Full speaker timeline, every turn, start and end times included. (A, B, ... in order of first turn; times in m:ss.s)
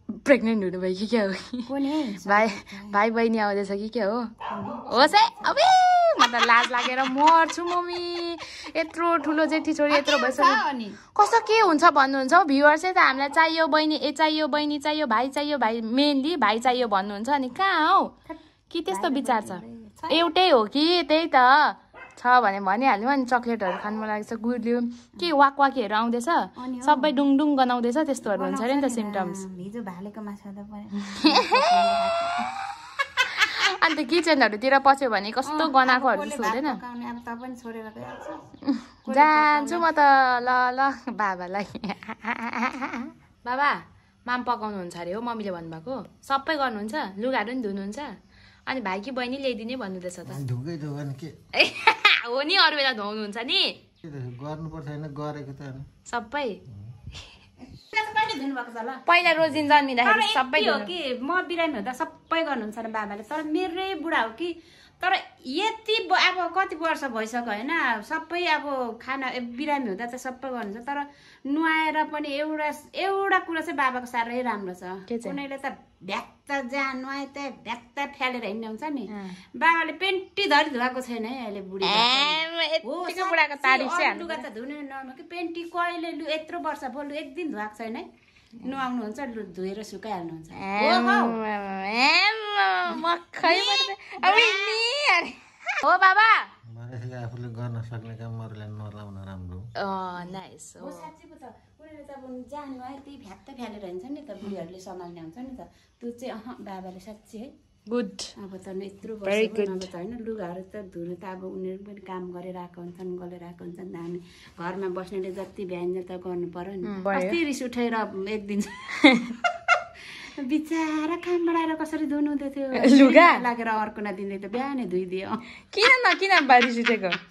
0:00.1-0:01.7 A
0:01.7-0:03.0 B
0:02.2-0:04.3 A
0:04.5-0:05.6 B
0:04.9-0:10.6 A
0:09.9-0:11.0 B
0:11.2-0:18.1 A
0:18.7-0:29.4 A
0:18.9-0:20.3 B
0:26.6-0:27.2 B
0:28.2-0:32.5 B
0:31.1-0:31.7 A
0:33.2-0:36.8 A
0:35.5-0:38.4 B
0:38.7-0:48.2 A
0:39.0-0:39.9 B
0:48.7-0:50.4 A
0:50.2-0:51.4 C
0:51.6-0:53.8 A
0:54.0-0:55.9 C
0:56.1-0:56.6 A
0:57.8-0:59.0 B
0:59.1-1:00.9 A
1:00.0-1:28.1 B
1:15.1-1:15.4 A
1:19.1-1:19.4 A
1:21.8-1:24.4 A
1:28.6-1:31.4 B
1:30.6-1:36.5 A
1:33.4-1:34.8 B
1:36.7-1:39.6 C
1:39.8-1:41.1 A
1:40.8-1:47.5 B
1:47.9-1:48.3 A
1:48.4-1:58.9 B
1:49.2-1:49.9 A
1:56.8-1:57.4 A
1:59.0-1:59.4 A
2:00.4-2:05.4 B
2:02.8-2:03.4 A
2:05.7-2:07.2 A